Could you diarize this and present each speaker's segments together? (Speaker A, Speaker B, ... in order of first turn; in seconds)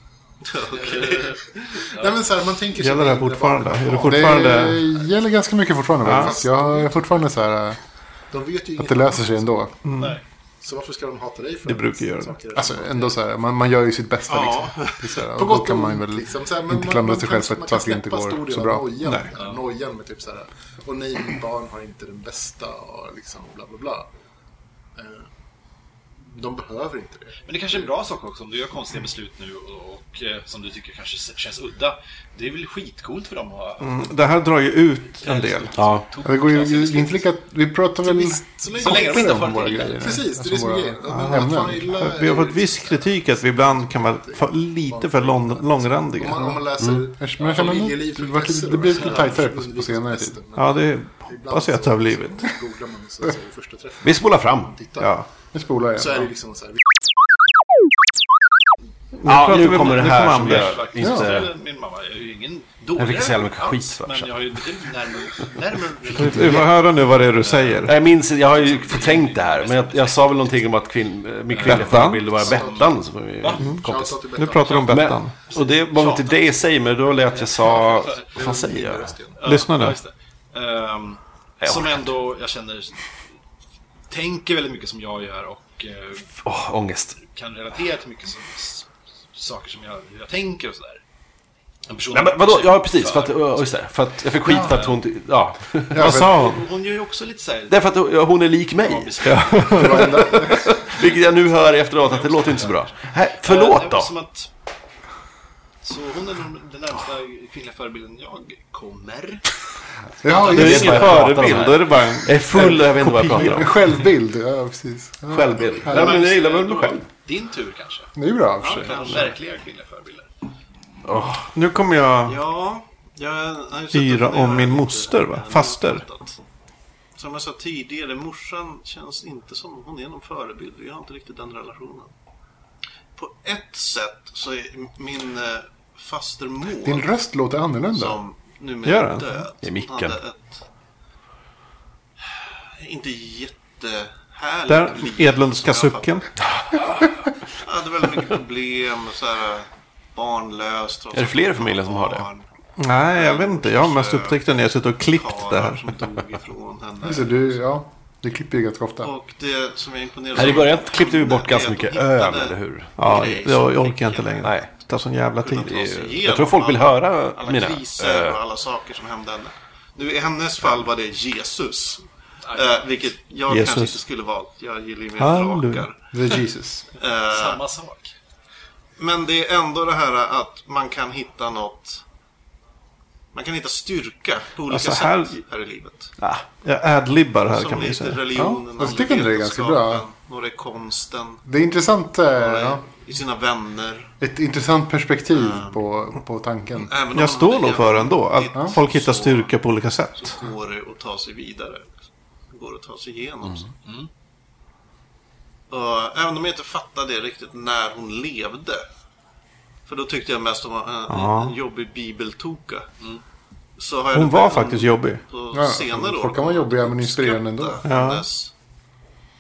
Speaker A: 0.4-1.9, 14.3-15.0, 118.8-119.2, 122.3-126.4, 127.2-132.1, 133.2-137.1, 137.9-140.6, 142.3-146.2, 147.6-152.4, 153.1-154.5, 155.1-157.6, 159.0-164.5, 165.4-176.0, 177.0-177.6, 179.0-182.0, 183.3-186.1, 187.5-191.4, 192.3-194.1, 195.3-195.8, 196.8-199.6, 200.2-202.0, 202.5-203.7, 205.7-208.8, 209.9-212.9, 213.8-218.5
Speaker B: 0.8-5.2, 6.0-7.3, 8.3-9.6, 10.6-13.2, 15.3-24.1, 24.9-25.3, 26.2-27.9, 38.0-55.2, 56.0-56.8, 72.4-72.9, 73.6-75.0, 77.6-79.4
Speaker C: 2.8-4.8, 6.0-6.4, 9.8-10.2, 11.7-12.4, 19.0-19.3, 33.8-35.9, 41.1-46.5, 50.6-52.5, 55.0-55.3, 59.2-60.9, 66.2-68.0, 71.6-72.3, 74.3-75.3, 79.4-80.0, 96.0-96.6, 99.2-100.2, 110.5-113.8, 121.5-122.4, 123.9-126.0, 138.8-139.3, 144.7-146.3, 152.8-155.9, 163.0-165.7, 173.5-174.0, 175.2-175.9, 184.7-185.4, 186.6-188.3, 197.1-200.4, 211.1-211.6, 214.1-215.2, 217.8-218.2
Speaker D: 4.0-7.8, 8.8-9.7, 12.6-19.1, 36.2-42.0, 46.3-50.4, 55.5-56.3, 61.0-61.4, 96.0-96.5, 99.7-100.8, 110.2-111.0, 113.4-116.2, 118.2-119.0, 136.8-138.2, 157.0-159.1, 176.1-176.8, 188.3-190.1, 191.5-192.8, 194.2-196.9, 215.5-217.8
Speaker E: 19.4-19.6, 27.5-34.1, 35.2-37.2, 38.6-40.2, 59.7-70.8, 71.5-73.8, 75.5-78.5, 79.4-83.0, 84.1-86.3, 87.2-91.0, 91.9-95.0, 95.9-97.9, 98.8-104.5, 105.8-109.5, 110.2-111.6, 115.8-120.3, 172.4-172.9, 177.3-178.2
Speaker F: 35.8-36.1, 54.0-54.8, 59.2-61.6, 63.0-64.6, 66.0-66.7, 67.8-79.2, 81.6-82.1, 86.4-87.2, 92.1-96.2, 97.7-104.1, 110.3-113.9, 115.3-117.1, 121.0-121.5, 139.6-140.2, 146.6-147.1, 151.1-152.3, 160.3-163.0, 164.4-164.7, 165.6-168.4, 186.2-186.4